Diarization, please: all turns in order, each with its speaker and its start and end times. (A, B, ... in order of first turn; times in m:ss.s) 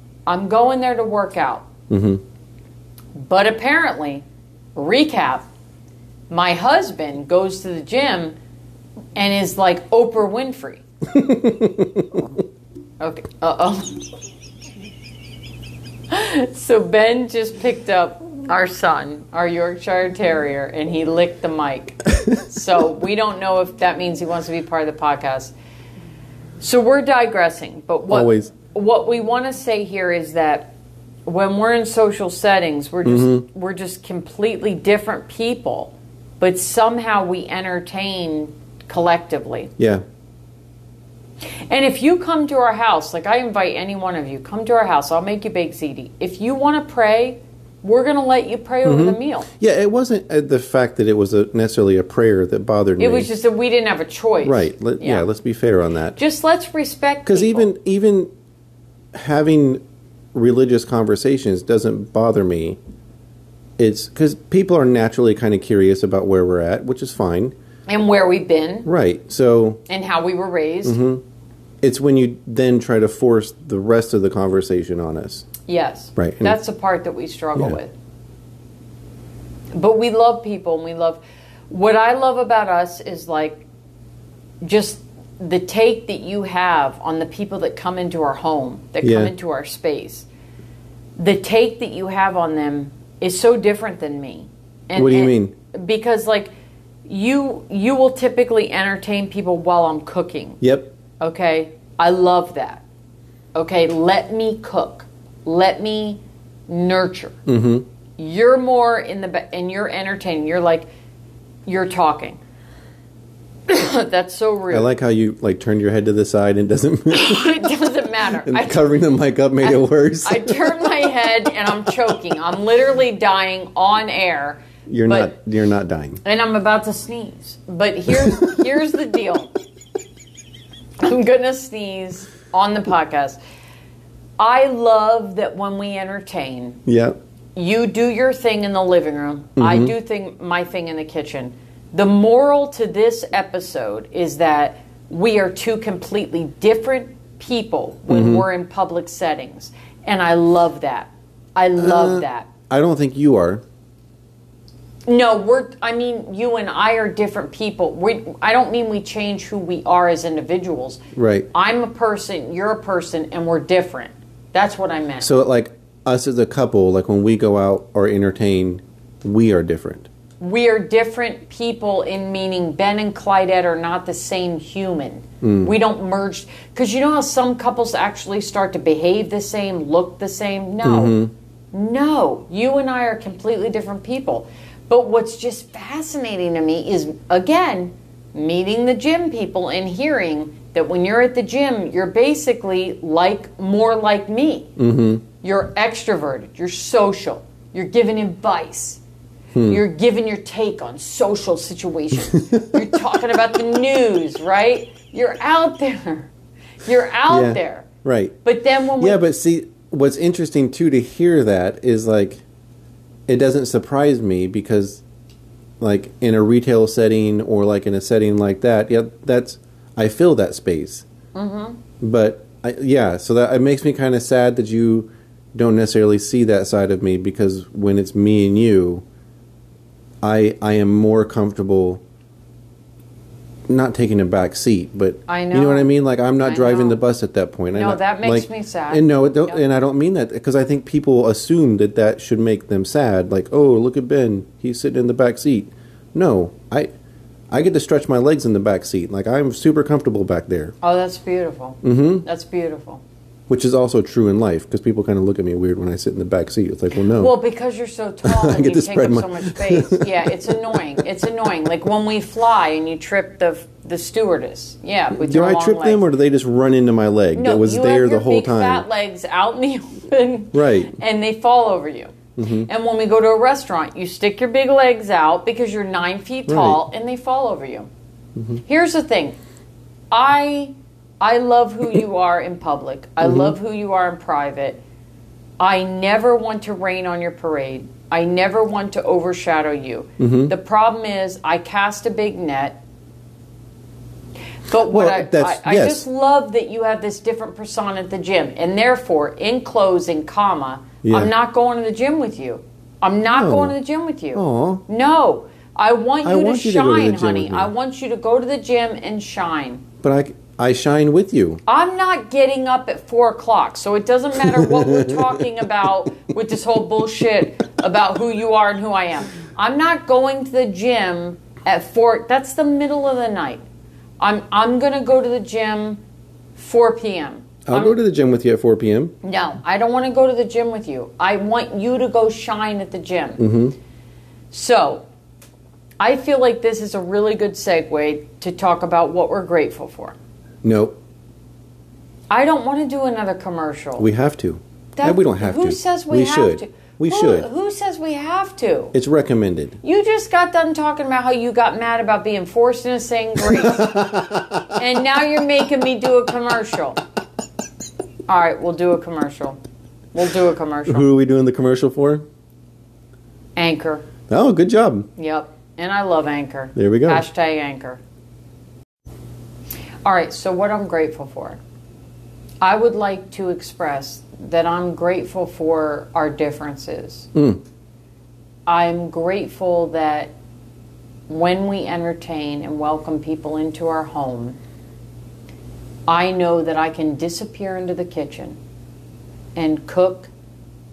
0:00.2-0:01.7 A
0:01.9-0:02.2 B
0:03.2-0:05.4 A
0:06.3-0:08.4 A
0:09.1-0:10.8 A
0:11.1-0:12.3 B
0:13.0-0:14.0 A
0:16.1-0:25.5 A
0:26.6-0:30.7 A
0:28.1-0:28.5 B
0:31.2-0:39.7 A
0:33.0-0:33.4 B
0:39.8-0:40.0 B
0:41.7-0:49.5 A
0:48.8-0:53.3 B
0:53.0-0:55.2 A
0:54.4-0:56.2 B
0:56.2-0:57.7 A
0:57.2-0:58.3 B
0:59.1-0:59.8 B
1:00.3-1:02.8 B
1:03.8-1:07.5 B
1:07.9-1:08.9 A
1:08.8-1:09.8 B
1:09.9-1:11.0 A
1:10.8-1:11.2 B
1:11.8-1:15.5 B
1:15.6-1:17.9 A
1:16.2-1:16.6 B
1:19.7-1:23.6 A
1:24.6-1:30.3 A
1:29.0-1:29.3 B
1:31.2-1:36.5 A
1:34.9-1:35.5 B
1:37.0-1:40.6 A
1:40.6-1:40.9 B
1:41.2-1:42.8 A
1:43.5-1:47.4 A
1:47.4-1:47.8 B
1:48.2-1:50.9 A
1:51.6-1:52.4 A
1:53.7-1:54.9 A
1:54.7-1:57.6 B
1:57.1-1:58.9 A
1:58.4-2:01.1 B
1:59.6-2:05.3 A
2:04.9-2:06.2 B
2:06.2-2:09.5 A
2:11.0-2:13.4 A
2:14.4-2:16.8 A
2:16.8-2:17.2 B
2:17.5-2:32.5 A
2:19.6-2:19.9 B
2:28.1-2:28.5 B
2:31.8-2:33.6 B
2:35.0-2:41.0 A
2:41.1-2:41.5 B
2:41.5-2:45.3 A
2:45.2-2:50.1 B
2:50.4-3:01.2 A
2:55.4-2:55.7 B
3:00.8-3:01.3 B
3:01.7-3:14.7 A
3:14.8-3:15.2 B
3:15.4-3:19.0 A
3:19.5-3:19.8 B
3:19.6-3:26.3 A
3:22.3-3:22.7 B
3:26.8-3:27.9 A
3:27.3-3:28.4 B
3:28.4-3:29.2 A
3:29.0-3:32.4 B
3:33.3-3:35.0 B
3:35.8-3:41.0 B
3:41.3-3:41.8 A
3:42.0-3:49.0 B
3:50.2-3:52.0 B
3:53.7-4:06.9 B
3:55.3-3:57.0 A
3:57.7-3:59.6 A
4:07.5-4:10.7 B
4:10.8-4:13.0 A
4:11.8-4:12.2 B
4:13.5-4:17.3 B
4:17.1-4:26.0 A
4:18.2-4:20.8 B
4:25.1-4:28.8 B
4:27.3-4:37.9 A
4:30.5-4:31.0 B
4:32.4-4:32.7 B
4:36.5-4:36.8 B
4:38.6-4:39.4 A
4:40.1-4:44.8 A
4:43.2-4:43.5 B
4:45.6-4:52.8 A
4:50.2-4:50.5 B
4:54.6-5:09.8 A
4:54.8-4:56.0 B
5:01.0-5:01.3 B
5:03.3-5:03.8 B
5:04.3-5:04.8 B
5:06.2-5:07.7 B
5:10.0-5:11.6 B
5:11.7-5:23.6 A
5:14.5-5:15.3 B
5:24.2-5:26.0 A
5:26.6-5:28.0 A
5:27.6-5:29.1 B
5:29.2-5:33.4 A
5:33.4-5:33.7 B
5:34.5-5:35.0 A
5:36.0-5:40.2 A
5:40.6-5:41.0 B
5:42.3-5:44.0 A
5:44.0-5:47.5 B
5:45.0-5:48.9 A
5:48.9-5:49.8 B
5:49.8-5:54.0 A
5:53.4-5:54.8 B
5:54.7-5:57.0 A
5:58.3-5:59.6 A
6:00.1-6:01.0 A
6:00.9-6:02.2 B
6:03.6-6:04.1 A
6:04.3-6:05.1 B
6:05.2-6:08.0 A
6:06.8-6:07.2 B
6:10.0-6:11.6 A
6:12.6-6:17.3 A
6:17.3-6:17.6 B
6:18.6-6:20.3 A
6:21.3-6:24.6 A
6:26.1-6:28.6 A
6:29.5-6:30.3 A